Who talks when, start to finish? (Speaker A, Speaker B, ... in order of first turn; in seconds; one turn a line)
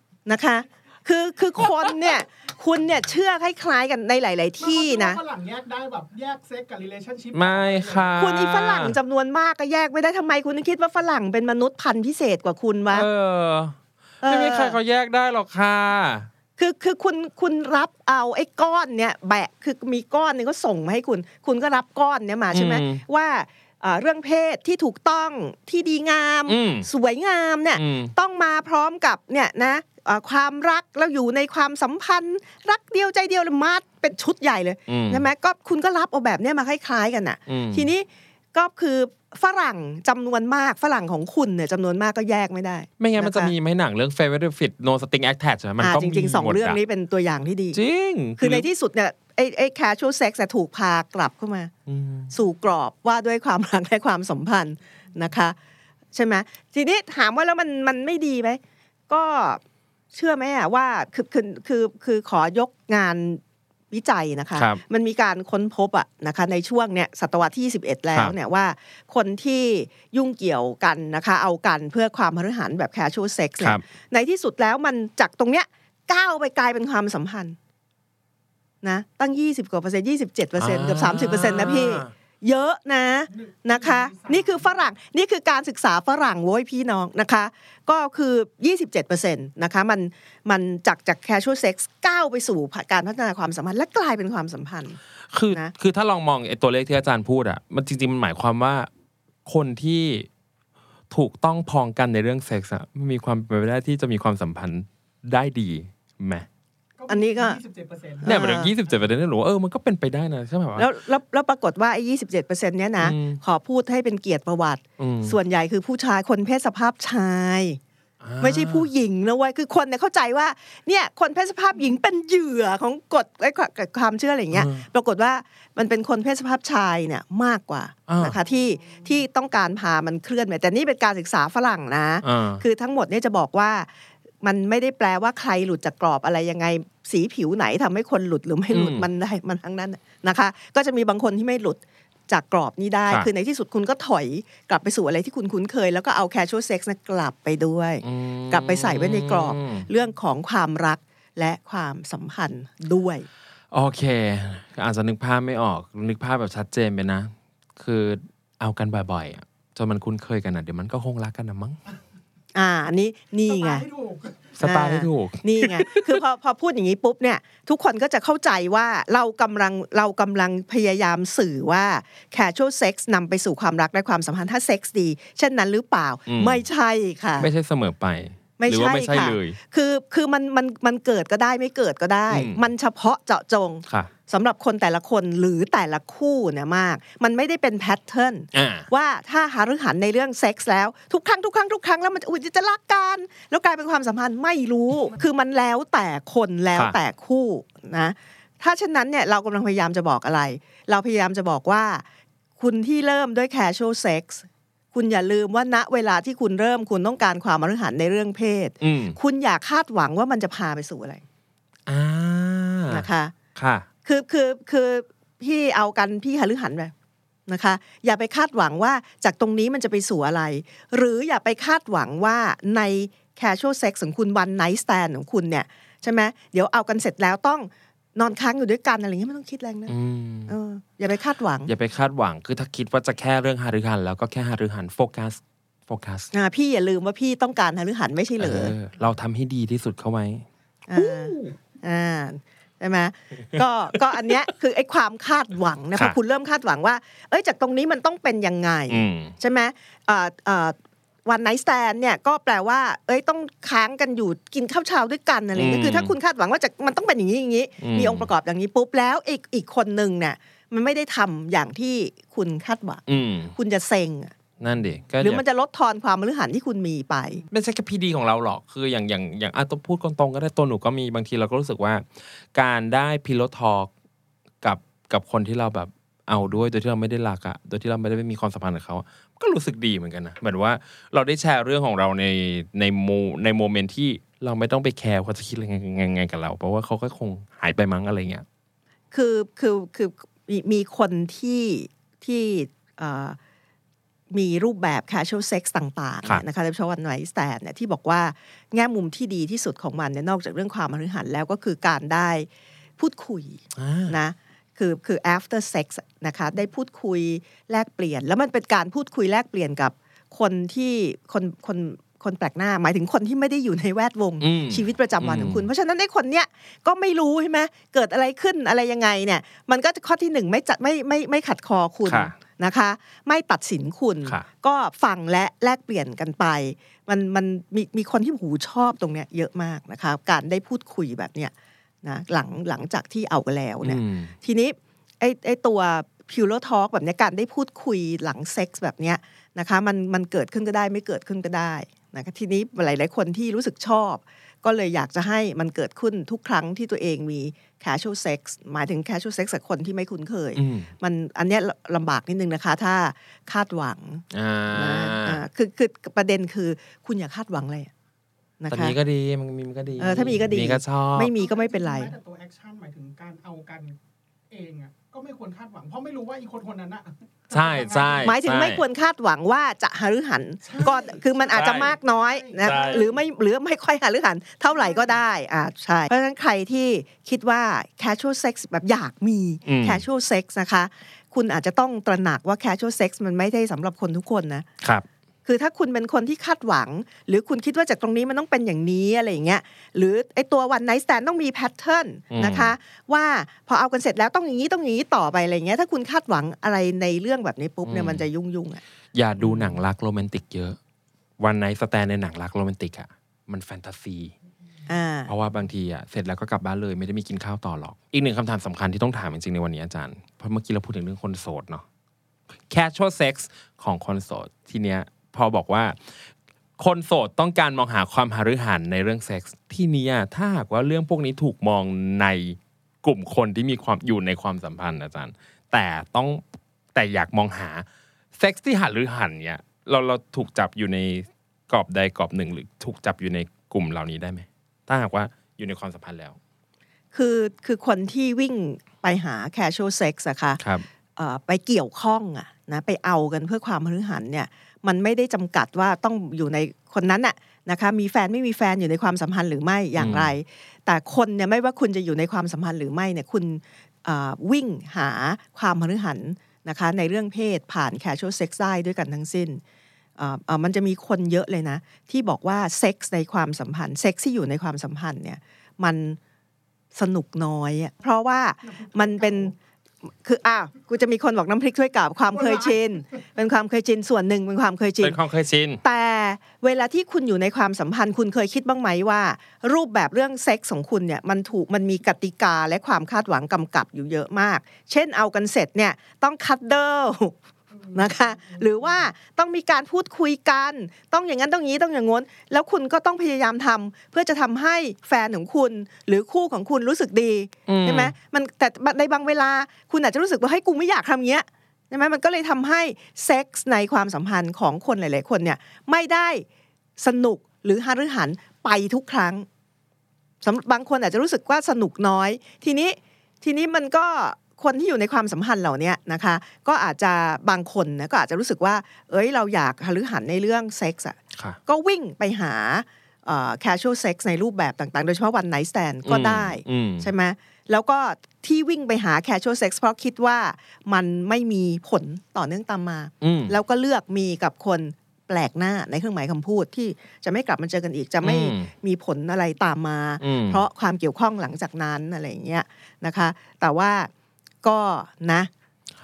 Speaker A: 0.2-5.2
Speaker B: 4.6-8.2
Speaker C: 7.3-8.9
Speaker A: 8.2-13.1
Speaker C: 12.9-16.3
Speaker A: 14.2-14.8
Speaker A: 16.6-43.5
Speaker C: 22.5-23.0
Speaker C: 26.5-26.9
Speaker C: 27.8-28.1
Speaker C: 34.9-35.2
Speaker C: 37.5-37.9
Speaker C: 43.0-46.8
Speaker A: 45.8-47.8
Speaker C: 47.7-48.7
Speaker A: 48.4-51.7
Speaker C: 51.9-52.3
Speaker A: 52.3-55.5
Speaker A: 56.1-59.6
Speaker A: 60.1-77.6
Speaker C: 64.5-64.8
Speaker A: 78.8-95.0
Speaker C: 80.6-82.1
Speaker B: 83.3-84.7
Speaker C: 95.3-98.9
Speaker C: 99.4-100.3
Speaker C: 101.1-106.5
Speaker B: 107.0-109.0
Speaker A: 107.1-107.6
Speaker A: 108.2-108.7
Speaker C: 108.2-110.9
Speaker A: 110.8-117.8
Speaker C: 113.0-113.4
Speaker C: 115.0-115.4
Speaker C: 118.2-118.9
Speaker A: 118.4-133.9
Speaker C: 124.5-124.8
Speaker C: 128.1-128.3
Speaker C: 132.2-132.6
Speaker A: 134.4-153.3
Speaker C: 138.7-139.1
Speaker C: 148.0-149.9
Speaker C: 153.7-161.8
Speaker A: 162.5-163.8
Speaker B: 163.5-164.6
Speaker C: 164.6-166.1
Speaker A: 164.6-177.5
Speaker C: 176.3-176.6
Speaker C: 177.4-179.6
Speaker A: 178.6-202.0
Speaker C: 182.3-182.6
Speaker C: 188.5-188.9
Speaker A: 202.6-211.2
Speaker C: 208.8-209.2
Speaker C: 211.9-213.9
Speaker A: 212.9-213.3
Speaker A: 214.0-216.9
Speaker A: 217.5-229.9
Speaker C: 229.9-230.5
Speaker A: 230.5-231.7
Speaker C: 231.7-236.3
Speaker A: 236.3-238.7
Speaker C: 238.4-241.5
Speaker A: 240.9-263.0
Speaker C: 244.1-244.4
Speaker C: 248.9-249.3
Speaker C: 255.5-256.1
Speaker C: 257.8-258.3
Speaker C: 263.1-263.5
Speaker A: 263.5-264.3
Speaker C: 264.6-265.4
Speaker A: 265.2-267.4
Speaker C: 267.5-273.9
Speaker C: 274.6-288.4
Speaker A: 289.1-293.4
Speaker A: 294.3-331.5
Speaker C: 303.8-304.1
Speaker C: 314.4-315.6
Speaker C: 322.1-322.3
Speaker A: 332.0-357.9
Speaker C: 333.8-334.3
Speaker C: 350.6-350.9
Speaker C: 354.3-355.4
Speaker A: 358.6-358.9
Speaker C: 358.7-361.3
Speaker A: 360.0-362.1
Speaker B: 361.3-364.0
Speaker B: 364.5-368.3
Speaker C: 367.5-368.8
Speaker A: 368.2-384.7
Speaker B: 370.6-373.2
Speaker C: 371.5-371.9
Speaker C: 372.6-373.0
Speaker B: 374.7-375.2
Speaker C: 379.6-380.0
Speaker A: 385.4-398.8
Speaker C: 392.3-392.7
Speaker C: 397.8-398.2
Speaker C: 399.1-400.8
Speaker A: 399.4-399.8
Speaker C: 401.4-404.3
Speaker A: 404.9-405.3
Speaker C: 405.3-411.8
Speaker C: 412.7-416.0
Speaker C: 416.8-426.4
Speaker C: 426.9-427.8
Speaker C: 428.4-436.4
Speaker A: 437.1-440.6
Speaker C: 440.6-440.9
Speaker A: 441.1-459.6
Speaker C: 450.0-450.3
Speaker A: 460.2-466.2
Speaker A: 466.9-469.5
Speaker B: 468.6-469.5
Speaker A: 470.2-475.2
Speaker B: 472.3-472.9
Speaker C: 475.0-475.8
Speaker A: 475.8-487.3
Speaker B: 487.7-488.8
Speaker A: 487.9-506.4
Speaker C: 497.7-498.1
Speaker A: 507.0-509.4
Speaker A: 510.4-544.1
Speaker C: 526.0-527.1
Speaker C: 533.2-533.5
Speaker C: 538.2-538.7
Speaker C: 540.2-540.6
Speaker A: 544.6-545.5